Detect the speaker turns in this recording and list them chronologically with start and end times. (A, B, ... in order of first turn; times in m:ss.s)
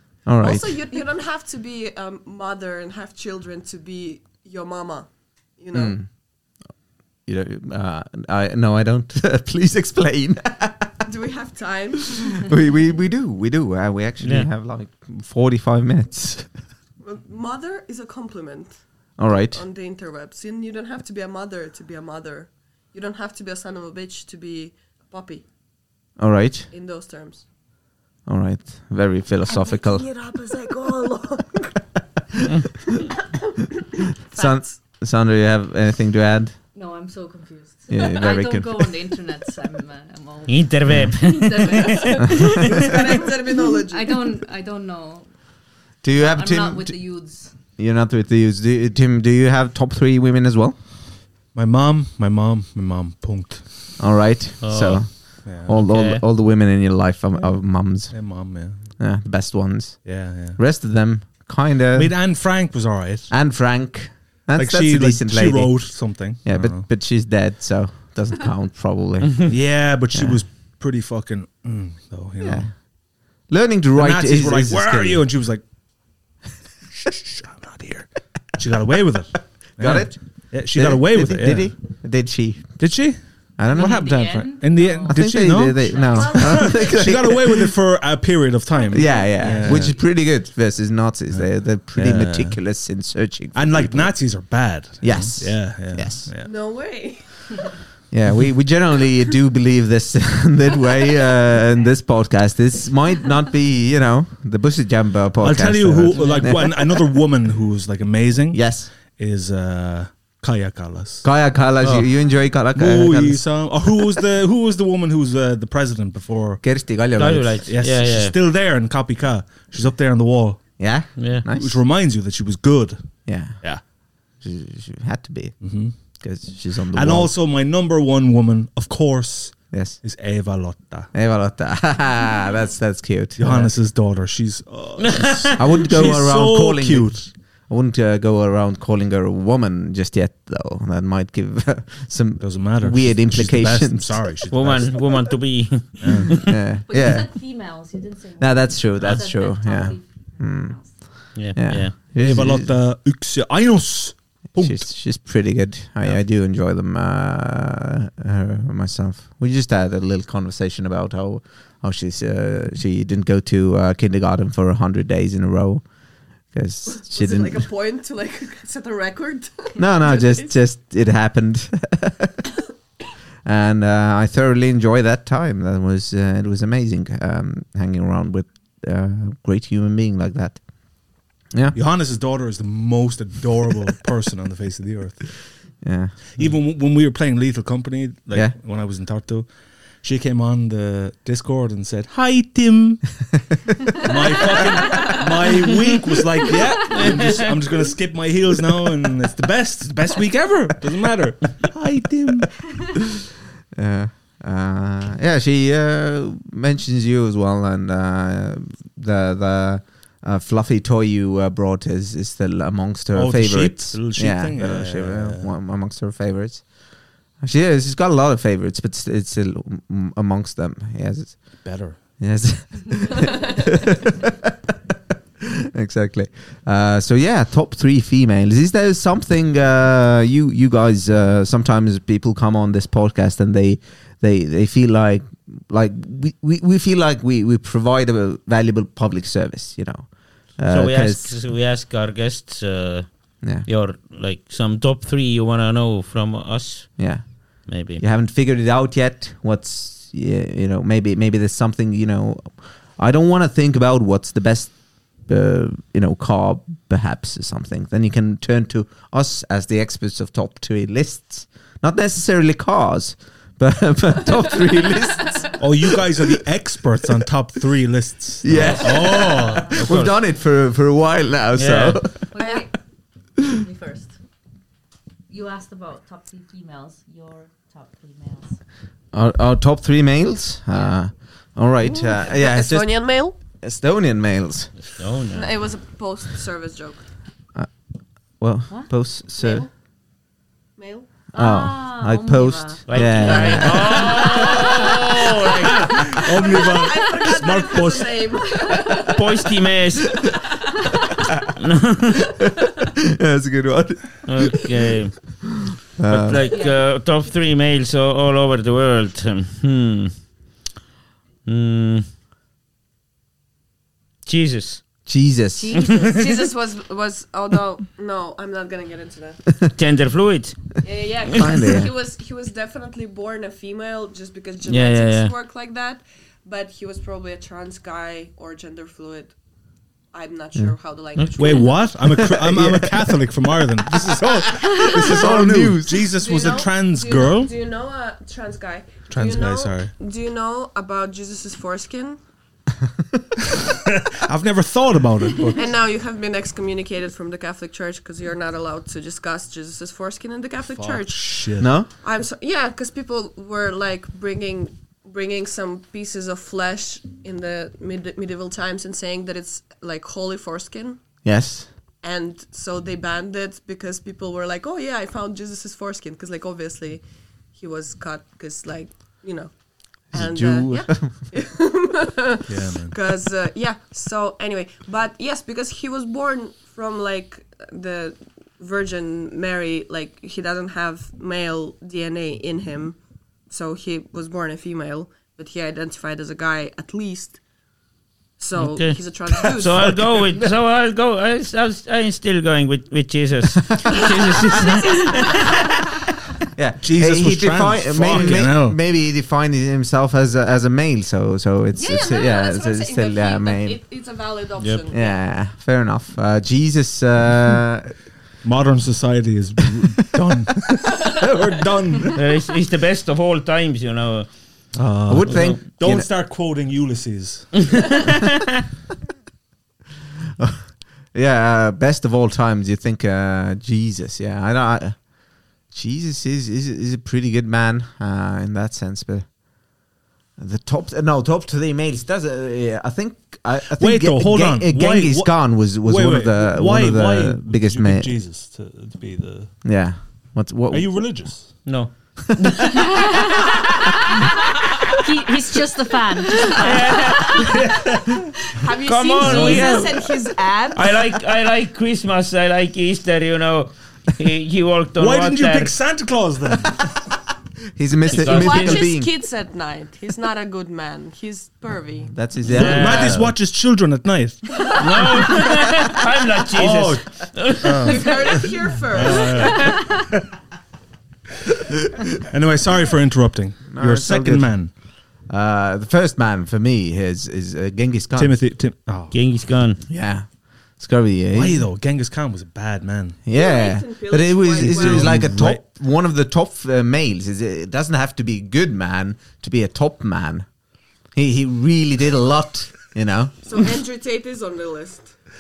0:00.3-0:00.8 A
0:00.4-0:06.0 B
0:05.7-0:06.1 A
0:07.3-0:11.1 A
0:11.0-0:12.4 B
0:12.3-0:16.5 A
0:14.2-0:14.5 C
0:17.0-0:25.4 B
0:19.2-0:19.6 A
0:26.2-0:26.7 A
0:26.7-0:27.5 B
0:28.3-0:30.1 A
0:29.5-0:31.8 B
0:33.4-0:34.8 B
0:34.3-0:36.6 A
0:36.7-0:45.3 D
0:37.9-0:38.9 A
0:40.5-0:42.6 C
0:40.9-0:41.2 A
0:42.3-0:44.2 B
0:46.0-0:47.0 A
0:46.1-0:47.6 D
0:47.8-0:50.8 A
0:51.5-0:53.7 E
0:54.0-0:58.4 A
0:54.6-0:55.0 C
0:55.4-0:55.8 E
0:55.8-0:56.2 C
0:58.1-0:58.9 E
0:59.0-1:02.1 A
1:00.0-1:00.6 E
1:01.9-1:03.3 E
1:03.3-1:09.5 A
1:04.6-1:06.9 E
1:09.5-1:12.7 E
1:10.1-1:10.4 A
1:12.4-1:12.7 A
1:13.5-1:15.2 A
1:14.0-1:15.6 E
1:17.0-1:21.7 E
1:19.8-1:20.2 A
1:20.7-1:22.8 A
1:22.8-1:23.2 E
1:23.6-1:24.5 A
1:23.7-1:25.2 D
1:23.7-1:30.0 E
1:25.0-1:27.8 A
1:25.9-1:26.9 D
1:28.9-1:34.2 A
1:29.0-1:29.8 D
1:31.3-1:32.6 E
1:33.5-1:36.5 E
1:35.0-1:36.3 A
1:36.4-1:37.7 B
1:38.1-1:46.8 A
1:45.4-1:51.3 E
1:48.5-1:48.9 A
1:51.2-1:53.5 A
1:52.8-1:56.6 E
1:56.6-1:57.6 A
1:57.2-1:58.3 C
1:57.7-2:00.8 E
2:00.8-2:01.8 A
2:01.2-2:01.4 C
2:01.5-2:03.8 E
2:03.3-2:07.3 A
2:05.6-2:06.0 E
2:06.9-2:11.1 E
2:09.7-2:10.0 A
2:11.1-2:13.7 A
2:13.4-2:17.1 E
2:15.0-2:15.6 C
2:15.6-2:24.2 A
2:22.4-2:25.1 E
2:24.5-2:26.5 C
2:26.0-2:26.4 E
2:26.4-2:27.3 A
2:26.9-2:31.2 D
2:28.4-2:32.7 A
2:31.4-2:32.0 C
2:32.2-2:34.9 E
2:34.6-2:45.8 A
2:46.5-2:47.7 A
2:46.9-2:50.6 B
2:49.8-2:52.4 A
2:53.4-3:00.6 A
3:01.7-3:05.4 E
3:05.8-3:06.2 A
3:06.4-3:09.5 E
3:10.0-3:13.0 E
3:14.0-3:22.6 E
3:16.9-3:17.4 C
3:23.8-3:36.7 A
3:33.1-3:35.5 E
3:37.4-3:41.6 A
3:41.6-3:42.0 E
3:42.2-3:44.5 A
3:45.4-4:01.3 A
4:00.7-4:07.0 C
4:03.4-4:03.7 A
4:07.0-4:26.4 A
4:07.7-4:08.0 C
4:25.6-4:29.7 E
4:28.4-4:32.3 A
4:28.6-4:28.8 C
4:29.7-4:30.1 C
4:31.6-4:32.0 C
4:32.3-4:32.7 D
4:33.4-4:34.1 D
4:35.3-4:38.6 D
4:39.1-4:42.9 A
4:41.9-4:43.4 B
4:43.6-4:44.9 A
4:44.8-4:45.5 C
4:45.3-4:47.0 B
4:48.4-4:49.6 A
4:49.4-4:49.7 B
4:50.8-4:51.1 B
4:51.3-4:54.8 A
4:51.4-4:55.0 D
4:52.9-4:56.2 C
4:56.2-4:59.3 B
4:56.2-4:58.2 E
4:59.0-5:00.2 C
5:00.1-5:00.7 B
5:01.6-5:02.2 C
5:02.8-5:04.6 A
5:04.2-5:05.2 C
5:06.0-5:06.4 A
5:06.1-5:10.2 C
5:11.5-5:12.1 C
5:14.3-5:14.9 C
5:15.1-5:16.0 A
5:15.6-5:16.2 D
5:15.8-5:16.1 C
5:16.0-5:19.4 B
5:19.7-5:20.6 C
5:20.8-5:29.4 B
5:21.4-5:21.9 A
5:24.7-5:25.3 C
5:30.1-5:31.9 B
5:31.4-5:37.5 E
5:32.0-5:33.1 A
5:33.9-5:36.1 A
5:36.0-5:42.2 B
5:39.1-5:39.9 E
5:44.1-5:45.6 E
5:45.5-6:01.0 B
5:50.7-5:51.7 E
5:51.6-5:51.9 A
6:01.2-6:01.7 A
6:02.0-6:07.0 B
6:07.6-6:23.0 B
6:10.1-6:11.2 A
6:12.5-6:13.0 E
6:23.5-6:27.4 B
6:28.4-6:30.0 B
6:28.6-6:35.6 C
6:36.5-6:43.8 A
6:36.8-6:38.8 E
6:41.8-6:45.2 B
6:44.9-6:47.9 A
6:48.4-6:52.2 E
6:52.1-6:55.6 C
6:54.7-6:57.9 E
6:55.1-6:56.1 A
7:00.4-7:09.4 A
7:10.4-7:18.1 A
7:13.8-7:19.6 E
7:19.6-7:21.2 A
7:20.7-7:21.6 E
7:21.6-7:24.2 C
7:22.7-7:24.2 D
7:24.9-7:27.7 D
7:26.5-7:27.6 C
7:27.4-7:28.3 E
7:28.5-7:30.9 B
7:28.8-7:30.0 C
7:29.3-7:29.6 E
7:30.7-7:35.7 C
7:35.0-7:36.8 E
7:37.8-7:39.1 A
7:38.1-7:38.9 C
7:38.2-7:42.1 B
7:42.1-7:43.4 A
7:42.5-7:43.2 C
7:42.5-7:44.9 E
7:44.6-7:45.4 B
7:44.8-7:48.2 C
7:46.6-7:50.2 E
7:47.8-7:49.8 B
7:52.1-7:54.7 E
7:53.7-7:54.5 A
7:55.3-7:58.4 A
7:58.2-7:59.1 E
7:59.1-7:59.8 C
7:59.9-8:00.3 A
8:00.8-8:01.6 A
8:01.4-8:03.2 E
8:03.3-8:10.5 A
8:03.3-8:05.2 B
8:04.6-8:05.6 E
8:11.1-8:13.6 A
8:13.4-8:15.1 B